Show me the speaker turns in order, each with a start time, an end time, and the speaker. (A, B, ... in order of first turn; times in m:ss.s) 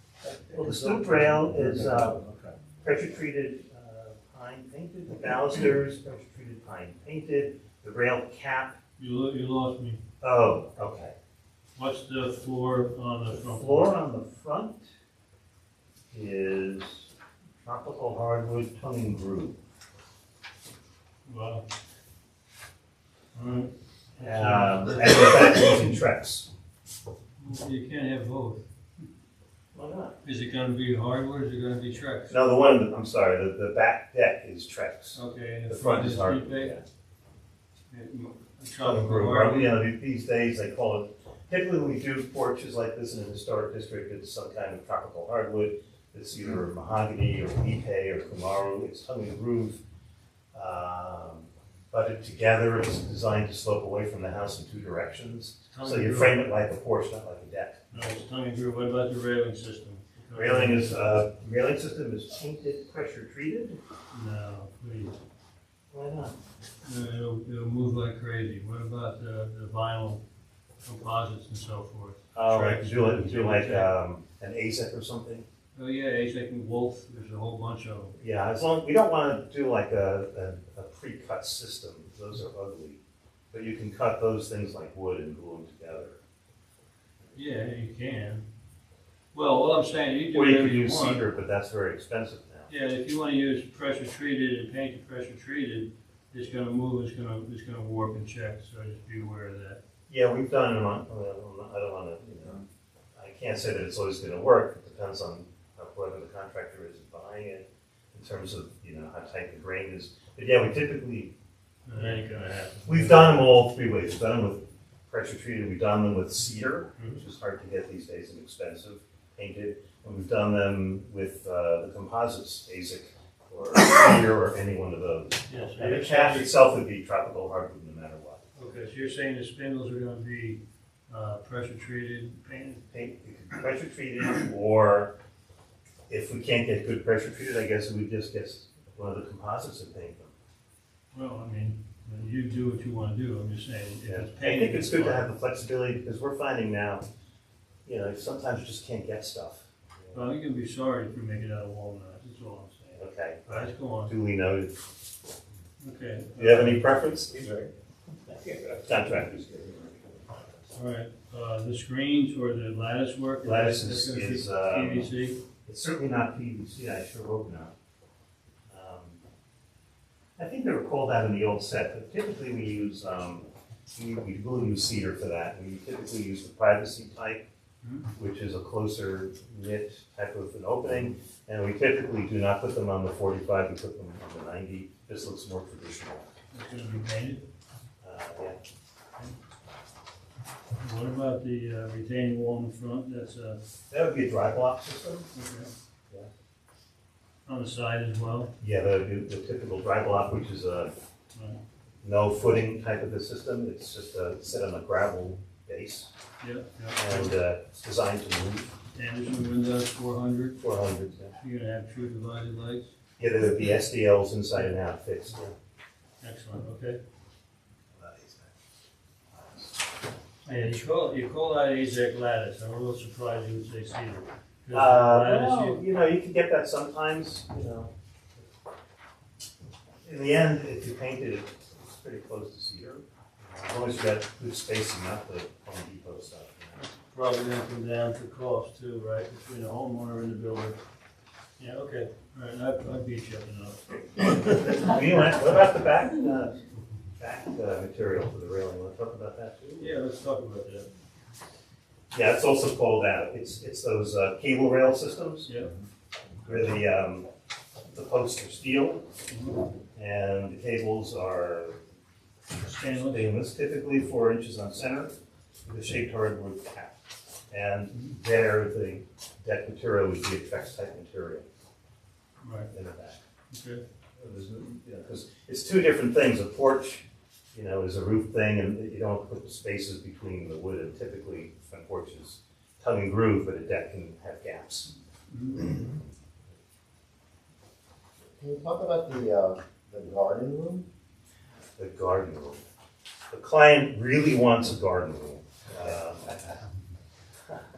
0:00.2-0:02.6 A
0:00.5-0:02.2 B
0:02.8-0:08.8 B
0:09.0-0:10.0 C
0:10.2-0:11.1 B
0:11.8-0:14.0 C
0:13.4-0:14.8 B
0:16.1-0:17.1 B
0:17.6-0:19.6 B
0:21.2-0:21.6 C
0:23.3-0:25.9 C
0:24.2-0:26.5 B
0:27.4-0:28.6 C
0:29.7-0:30.2 B
0:30.2-0:32.4 C
0:32.3-0:36.8 B
0:35.1-0:36.8 C
0:37.9-0:39.8 C
0:38.8-0:49.8 B
0:50.5-0:57.9 B
0:55.7-0:56.4 C
0:57.9-1:00.9 C
1:00.3-1:03.8 B
1:04.1-1:05.2 C
1:05.9-1:06.3 B
1:06.8-1:10.2 C
1:10.8-1:13.9 C
1:12.3-1:15.4 B
1:15.8-1:18.2 C
1:18.2-1:23.0 B
1:23.5-1:26.2 B
1:27.3-1:28.4 C
1:29.3-1:31.2 C
1:30.3-1:32.7 B
1:32.7-1:39.8 C
1:40.1-1:42.6 B
1:43.2-1:51.3 B
1:51.9-1:53.4 C
1:51.9-1:52.2 B
1:52.8-2:08.4 B
1:57.0-1:57.2 C
2:05.5-2:06.5 C
2:08.6-2:12.8 C
2:12.9-2:15.1 B
2:16.1-2:20.3 B
2:21.1-2:25.3 C
2:24.1-2:27.0 B
2:27.8-2:30.2 B
2:30.1-2:34.1 C
2:32.9-2:34.7 B
2:35.8-2:36.8 C
2:36.4-2:37.3 B
2:37.3-2:37.7 A
2:38.2-2:38.8 A
2:38.8-2:40.2 B
2:40.7-2:45.4 C
2:43.4-2:45.1 B
2:45.6-2:47.7 B
2:48.7-2:49.2 B
2:50.4-2:57.4 B
2:57.8-2:58.1 C
2:58.2-3:06.3 B
3:06.5-3:07.4 C
3:08.0-3:08.6 B
3:10.8-3:13.6 C
3:13.9-3:15.3 B
3:15.3-3:15.7 C
3:17.4-3:18.5 C
3:18.6-3:20.9 B
3:22.0-3:26.1 B
3:26.4-3:27.3 C
3:27.0-3:28.7 B
3:28.9-3:30.6 C
3:30.6-3:31.4 B
3:31.4-3:32.9 C
3:33.2-3:35.5 B
3:36.2-3:37.0 C
3:37.9-3:38.5 B
3:39.3-3:39.7 B
3:40.4-3:45.8 C
3:44.7-3:47.9 B
3:50.0-3:56.8 B
3:56.8-4:00.8 C
4:01.6-4:05.0 C
4:04.8-4:06.5 B
4:07.2-4:09.9 B
4:09.8-4:10.9 C
4:12.1-4:15.5 B
4:15.4-4:15.7 C
4:16.4-4:17.3 B
4:17.9-4:19.0 B
4:19.3-4:19.6 C
4:19.9-4:21.8 B
4:22.6-4:23.3 C
4:22.8-4:25.1 B
4:25.6-4:27.0 B
4:27.5-4:31.4 B
4:32.4-4:32.7 C
4:32.7-4:33.2 B
4:33.5-4:33.8 C
4:34.2-4:37.0 B
4:37.5-4:44.9 B
4:45.3-4:45.7 C
4:48.4-4:50.9 A
4:51.8-4:52.6 B
4:53.3-4:56.6 B